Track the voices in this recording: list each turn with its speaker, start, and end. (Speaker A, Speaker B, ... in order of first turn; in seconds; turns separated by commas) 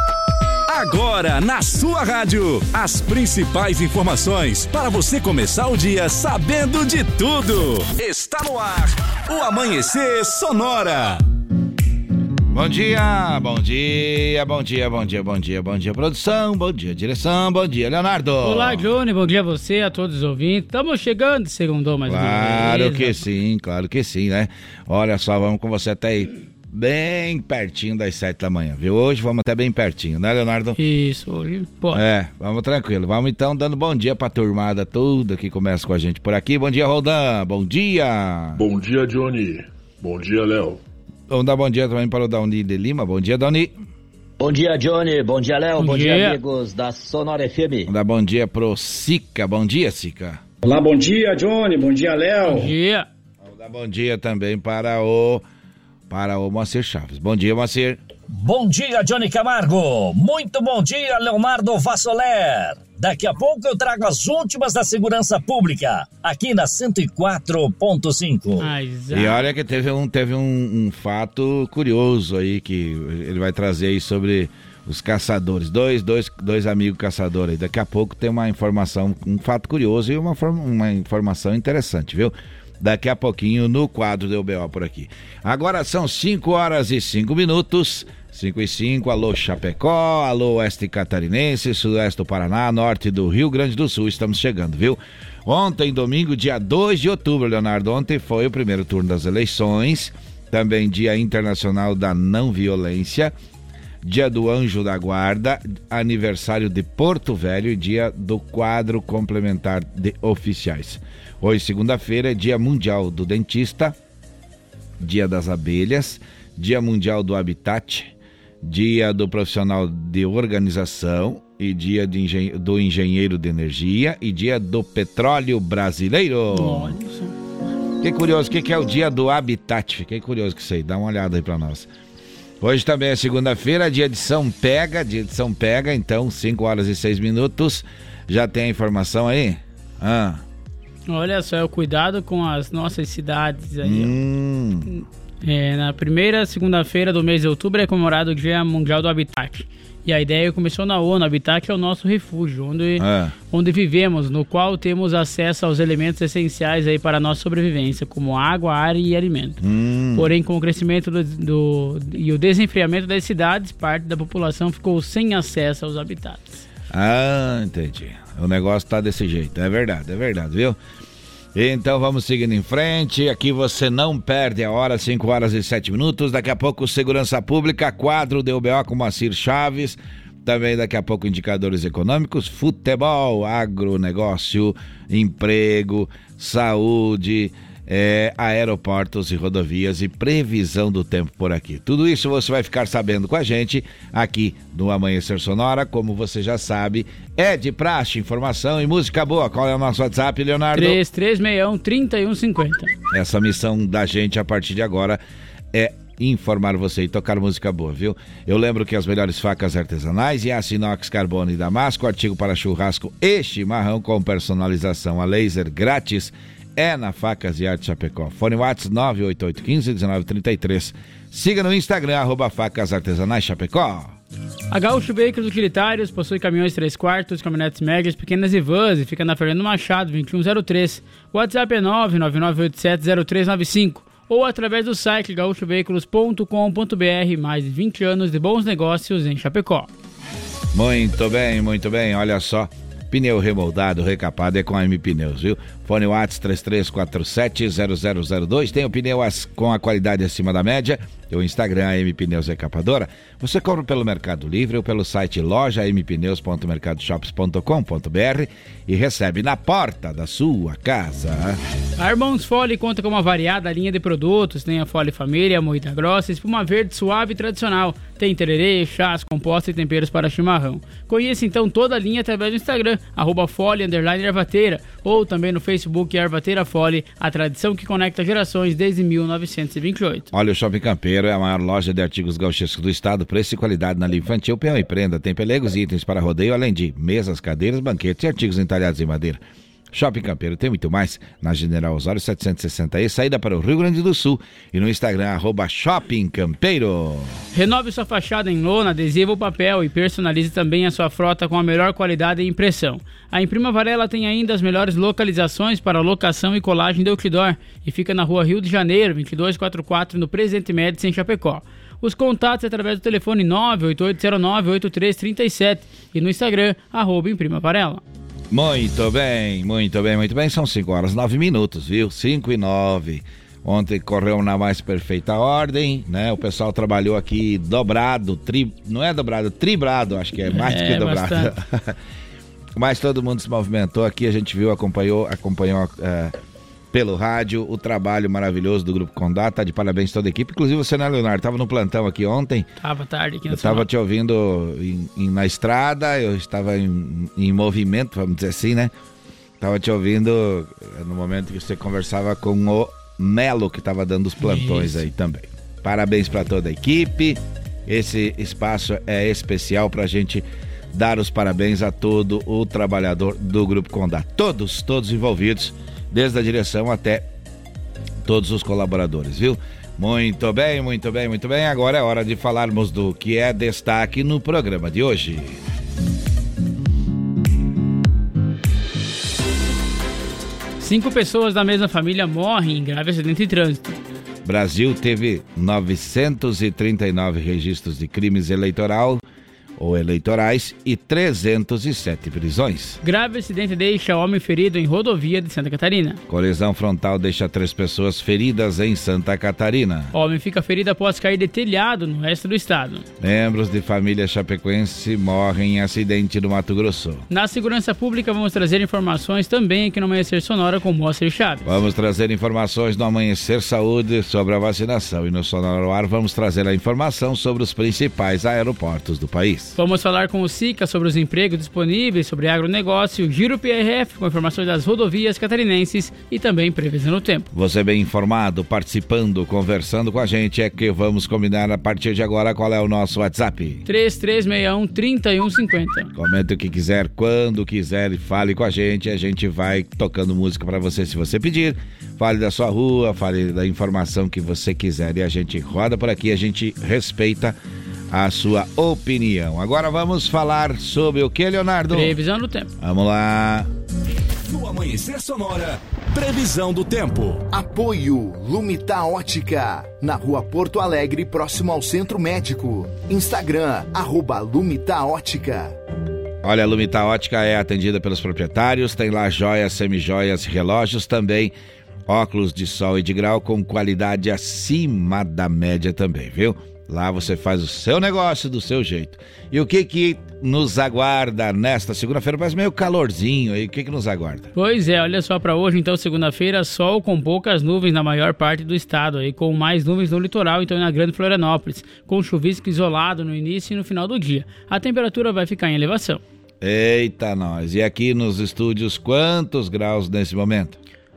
Speaker A: 0.7-11.2, Speaker B: 12.5-18.9, Speaker C: 18.4-23.2, Speaker B: 22.1-30.8, Speaker C: 30.8-32.0, Speaker B: 31.9-38.6, Speaker D: 38.6-40.8, Speaker B: 41.3-43.7, Speaker E: 44.4-47.9, Speaker C: 45.8-46.4, Speaker B: 47.9-50.4, Speaker F: 50.6-52.7, Speaker C: 52.5-53.1, Speaker B: 53.5-55.4, Speaker B: 56.1-58.0, Speaker G: 58.3-68.7, Speaker C: 68.6-69.5, Speaker B: 69.1-103.3, Speaker B: 104.0-114.0, Speaker B: 115.0-127.0, Speaker C: 126.5-127.3, Speaker B: 128.0-131.9, Speaker B: 132.6-140.4, Speaker C: 141.1-144.2, Speaker B: 143.8-144.9, Speaker C: 145.4-159.6, Speaker B: 153.0-153.3, Speaker B: 159.6-160.3, Speaker C: 160.2-166.6, Speaker B: 166.9-170.8, Speaker B: 171.5-201.0, Speaker C: 200.7-202.9, Speaker B: 203.1-205.2, Speaker B: 205.7-224.2, Speaker C: 224.7-239.9, Speaker B: 240.7-261.6, Speaker C: 262.0-280.3, Speaker B: 280.3-289.4, Speaker B: 289.9-297.4, Speaker C: 297.5-318.0, Speaker B: 318.5-332.0, Speaker C: 330.5-331.5, Speaker B: 332.8-336.4, Speaker B: 336.9-342.7, Speaker C: 342.8-343.9, Speaker B: 343.5-348.9, Speaker B: 349.6-367.3, Speaker C: 354.4-355.0, Speaker B: 368.2-375.6, Speaker C: 380.8-384.0, Speaker B: 384.4-389.2, Speaker B: 389.8-393.0, Speaker C: 393.0-396.2, Speaker B: 396.3-400.1, Speaker C: 400.1-403.1, Speaker B: 403.2-407.3, Speaker C: 407.3-411.6, Speaker B: 411.6-419.8, Speaker C: 419.8-427.5, Speaker B: 427.5-433.8, Speaker C: 433.9-436.1, Speaker B: 436.1-447.6, Speaker B: 448.1-452.1, Speaker C: 451.9-452.7, Speaker B: 452.8-453.7, Speaker A: 454.5-457.4, Speaker H: 457.5-465.7, Speaker B: 466.4-471.6, Speaker B: 472.1-484.5, Speaker C: 484.6-496.2, Speaker B: 496.6-500.8